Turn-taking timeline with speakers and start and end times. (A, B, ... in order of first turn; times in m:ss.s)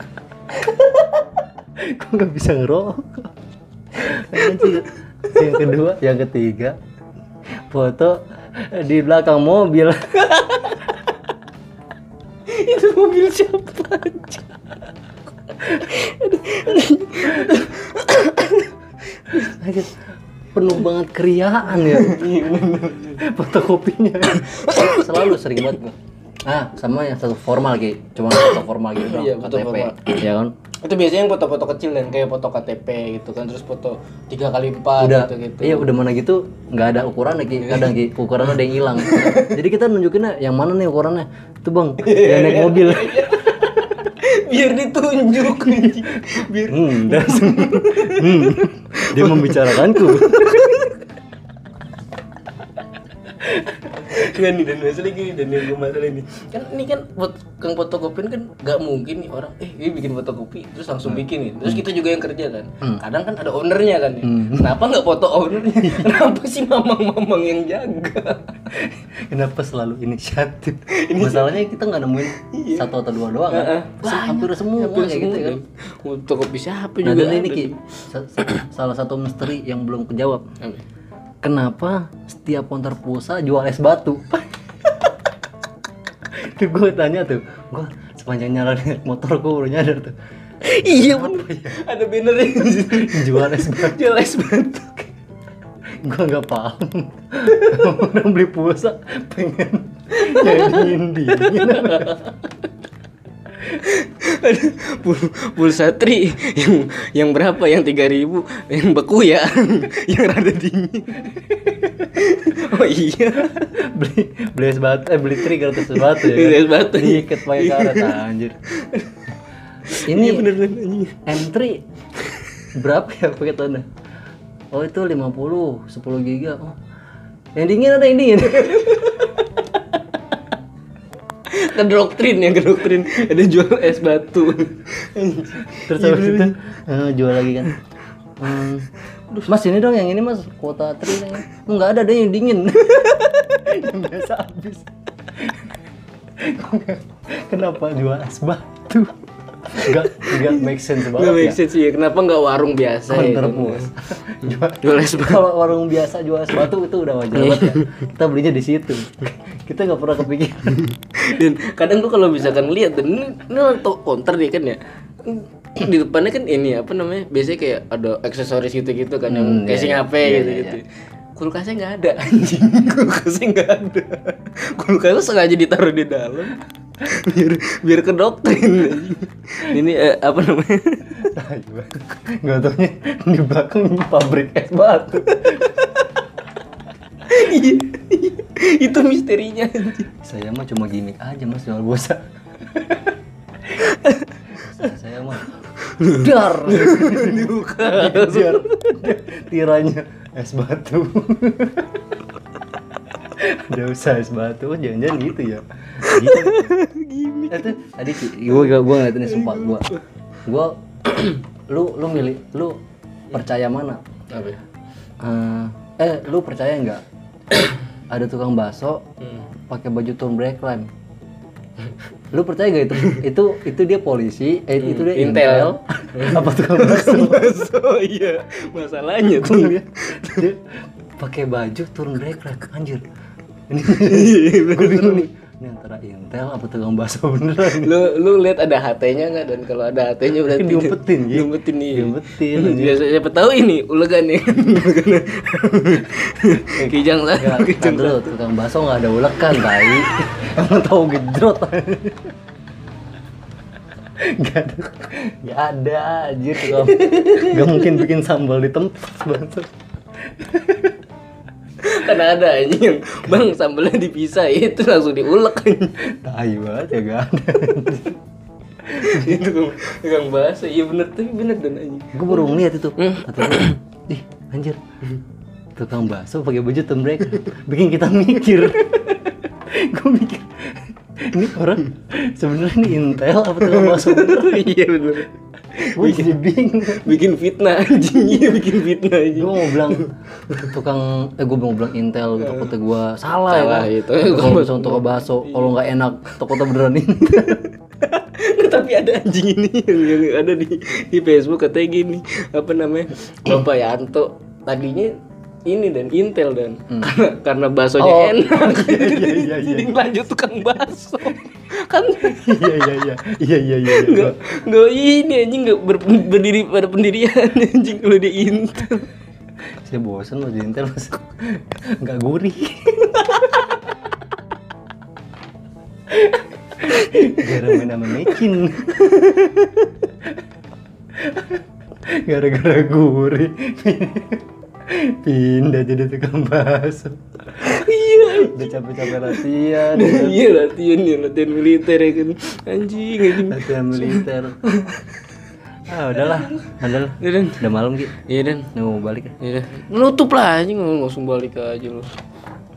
0:00.5-0:03.3 A
0:03.9-0:06.8 A
0:04.1-0:04.8 B
0:07.7-0:10.2 A
0:10.2-0:11.0 B
0:12.5-0:14.5 B
0:15.5-0:18.7 B
0:19.3-0:19.5 B
0:19.3-0:20.0 A
0:20.5-0:22.3 A
0:21.7-0:23.3 B
0:23.2-0:30.5 A
0:24.3-0:25.6 B
0:28.4-0:30.2 B
0:30.8-0:35.9 B
0:35.0-0:43.4 A
0:37.6-0:39.6 B
0:42.0-0:51.0 B
0:46.7-0:50.8 A
0:53.4-1:08.7 B
1:01.1-1:01.8 A
1:04.2-1:04.7 A
1:05.8-1:06.2 A
1:08.7-1:15.6 A
1:10.9-1:11.6 B
1:12.3-1:12.9 B
1:13.5-1:17.8 B
1:17.0-1:20.4 A
1:21.4-1:24.5 A
1:26.3-1:30.2 A
1:30.6-1:35.1 B
1:30.8-1:31.8 A
1:32.9-1:34.1 A
1:36.0-1:42.2 A
1:37.5-1:37.9 B
1:40.1-1:42.5 B
1:43.6-1:53.7 B
1:53.7-1:58.6 A
1:55.8-1:58.2 B
1:58.8-1:59.2 B
1:59.9-2:01.3 B
2:00.0-2:00.5 A
2:01.3-2:01.8 A
2:02.2-2:02.6 B
2:02.7-2:03.9 A
2:04.7-2:06.8 A
2:07.6-2:09.3 A
2:08.7-2:09.4 B
2:11.5-2:16.6 B
2:15.9-2:17.7 A
2:18.4-2:18.9 A
2:19.4-2:25.7 A
2:26.4-2:31.6 A
2:29.9-2:35.5 B
2:33.1-2:40.9 A
2:37.3-2:38.0 B
2:40.8-2:50.8 B
2:49.3-2:50.8 A
2:51.4-3:01.2 B
3:01.2-3:05.8 A
3:05.3-3:06.0 B
3:07.2-3:10.1 B
3:10.2-3:13.0 A
3:13.7-3:14.8 B
3:14.6-3:22.2 A
3:15.8-3:18.9 B
3:23.3-3:26.7 A
3:26.0-3:30.0 B
3:27.5-3:29.9 A
3:30.4-3:32.8 A
3:33.3-3:34.0 A
3:34.3-3:34.6 B
3:35.2-3:37.0 A
3:38.1-3:39.0 A
3:39.7-3:40.9 A
3:42.3-3:47.6 A
3:44.8-3:50.5 B
3:49.4-3:53.0 A
3:53.7-3:58.0 A
3:53.9-3:55.3 B
3:57.6-4:08.3 B
4:00.4-4:03.0 A
4:06.7-4:12.3 A
4:14.2-4:19.7 A
4:16.7-4:18.0 B
4:20.3-4:21.0 A
4:21.8-4:26.1 B
4:23.2-4:23.5 A
4:26.0-4:28.2 A
4:28.9-4:33.8 B
4:28.9-4:29.4 A
4:32.1-4:34.8 A
4:35.8-4:44.7 A
4:43.6-4:50.7 B
4:45.9-4:47.2 A
4:49.3-4:57.7 A
4:52.4-4:52.7 B
4:53.5-4:55.8 B
4:58.0-5:12.6 B
5:06.9-5:07.2 A
5:08.0-5:09.9 A
5:12.2-5:14.4 A
5:13.8-5:19.1 B
5:19.8-5:23.6 A
5:26.1-5:29.8 A
5:26.9-5:27.7 B
5:29.0-5:29.7 B
5:31.1-5:40.4 A
5:37.6-5:45.2 B
5:43.3-5:44.6 A
5:45.9-5:48.2 A
5:46.1-5:48.7 B
5:48.7-5:49.3 A
5:49.4-5:52.1 B